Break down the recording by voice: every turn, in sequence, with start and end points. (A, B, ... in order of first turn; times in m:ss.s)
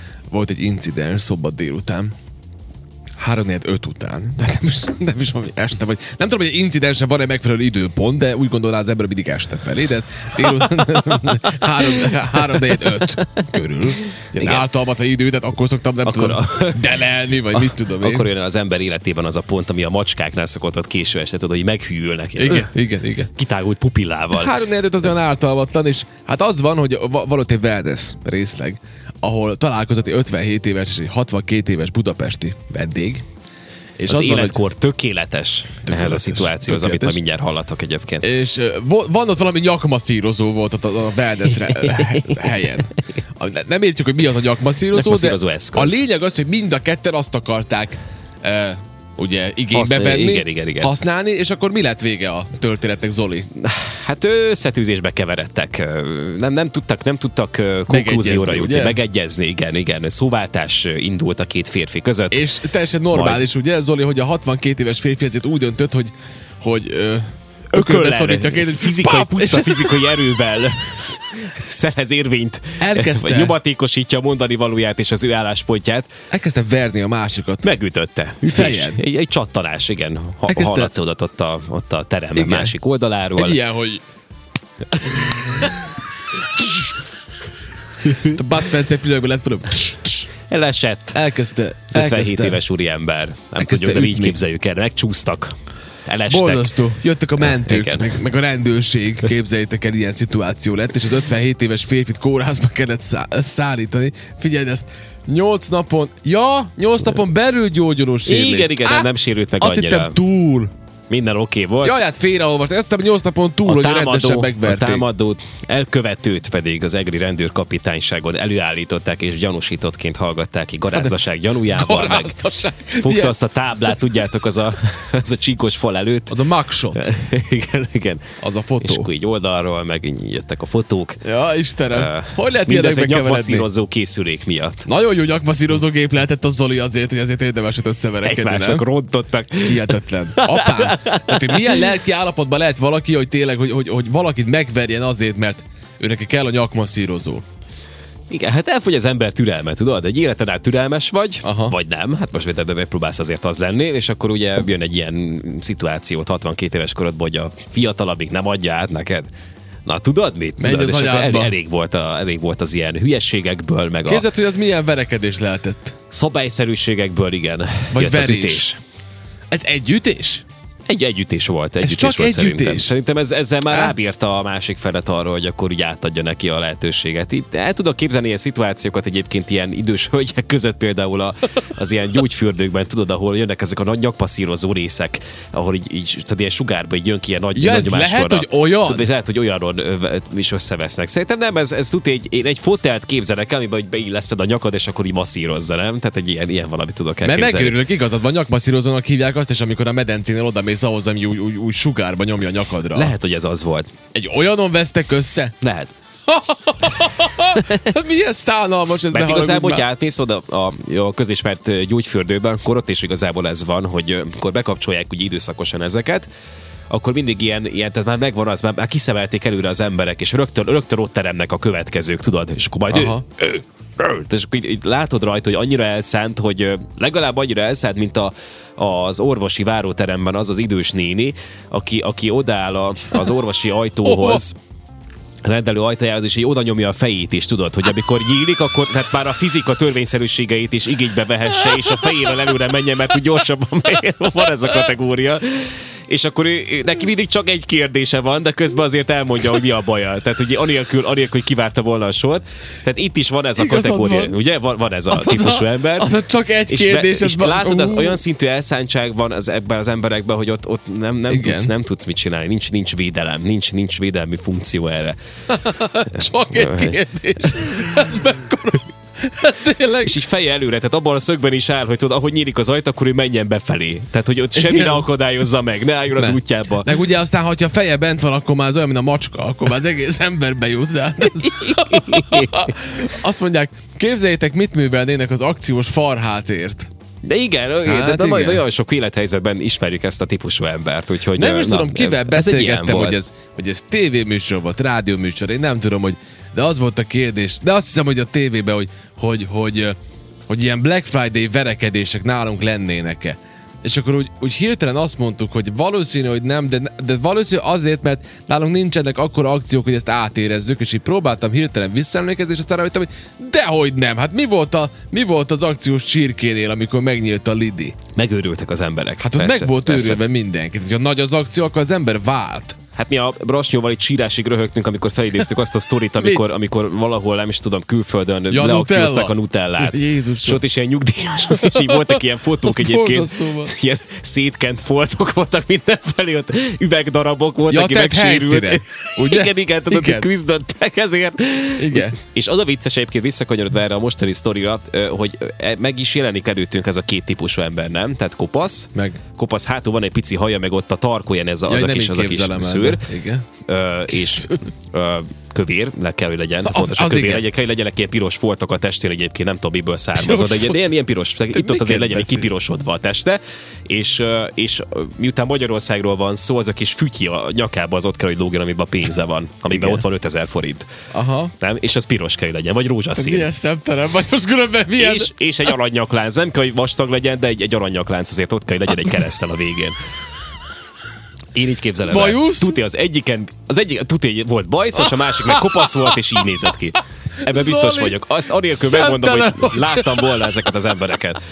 0:00.3-0:02.1 A
0:03.2-0:18.3 A
0:10.4-0:13.4 B
0:14.4-0:14.7 B
0:16.0-0:17.0 B
0:17.5-0:22.7 B
0:22.4-0:23.3 A
0:23.4-0:24.6 B
0:24.3-0:33.2 A
0:34.0-0:34.6 A
0:34.1-0:38.2 B
0:35.9-0:37.2 A
0:38.2-0:53.5 A
0:41.6-0:42.4 B
0:44.9-0:46.0 B
0:49.7-0:51.0 B
0:53.6-1:02.5 B
0:57.9-0:59.0 A
1:02.3-1:10.2 A
1:03.1-1:03.5 B
1:07.7-1:16.1 B
1:12.8-1:13.6 A
1:16.3-1:17.7 A
1:17.6-1:23.6 B
1:18.4-1:19.0 A
1:20.5-1:20.9 A
1:22.4-1:22.7 A
1:23.4-1:24.0 A
1:25.1-1:25.8 A
1:28.0-1:28.4 B
1:28.1-1:30.3 A
1:30.5-1:31.2 B
1:31.1-1:32.6 A
1:31.9-1:35.6 B
1:33.6-1:34.4 A
1:36.1-1:36.8 B
1:36.3-1:50.7 A
1:37.4-1:38.2 B
1:48.3-1:50.2 B
1:51.1-1:52.0 B
1:51.8-1:55.0 A
1:53.7-2:02.4 B
2:00.9-2:03.4 A
2:03.0-2:06.4 B
2:06.3-2:07.0 A
2:06.9-2:08.2 B
2:08.4-2:09.1 A
2:08.8-2:11.2 B
2:11.2-2:13.7 A
2:11.9-2:14.9 B
2:14.8-2:18.8 A
2:18.2-2:21.9 B
2:19.6-2:27.4 A
2:28.3-2:39.3 B
2:31.4-2:31.8 A
2:39.9-2:44.3 B
2:40.6-2:41.6 A
2:44.0-2:46.0 A
2:46.1-2:48.8 B
2:47.9-2:48.6 A
2:49.5-2:50.4 A
2:50.9-3:17.8 B
2:51.8-2:52.9 A
2:53.7-2:53.9 A
3:07.6-3:09.1 A
3:17.2-3:23.1 A
3:22.9-3:23.9 B
3:24.1-3:25.6 A
3:25.6-3:25.9 B
3:26.3-3:29.9 A
3:27.5-3:27.9 B
3:29.1-3:36.3 B
3:36.9-3:54.6 B
3:42.9-3:43.2 A
3:55.4-4:16.1 B
4:13.6-4:14.4 A
4:15.1-4:18.2 A
4:16.7-4:25.2 B
4:21.3-4:21.7 A
4:25.5-4:30.2 A
4:26.4-4:27.0 B
4:30.0-4:36.9 B
4:34.6-4:35.1 A
4:36.2-4:46.9 A
4:41.4-4:42.7 B
4:47.2-4:53.2 B
4:47.8-4:48.6 A
4:51.3-5:00.0 A
5:00.5-5:18.0 A
5:18.2-5:20.2 B
5:19.2-5:22.8 A
5:23.0-5:53.0 B
5:26.2-5:26.4 A
5:28.5-5:30.6 A
5:31.5-5:33.7 A
5:37.7-5:40.3 A
5:41.8-5:42.2 A
5:48.9-5:49.2 A
5:51.7-5:53.5 A
5:53.7-6:10.9 B
5:54.1-5:54.7 A
5:56.6-5:57.4 A
6:00.2-6:00.9 A
6:01.5-6:02.5 A
6:09.7-6:10.0 A
6:11.1-6:11.5 A
6:11.6-6:13.5 B
6:13.2-6:15.3 A
6:15.0-6:20.0 B
6:21.5-6:31.4 B
6:22.1-6:22.8 A
6:25.0-6:26.2 A
6:27.4-6:28.2 A
6:28.7-6:30.7 A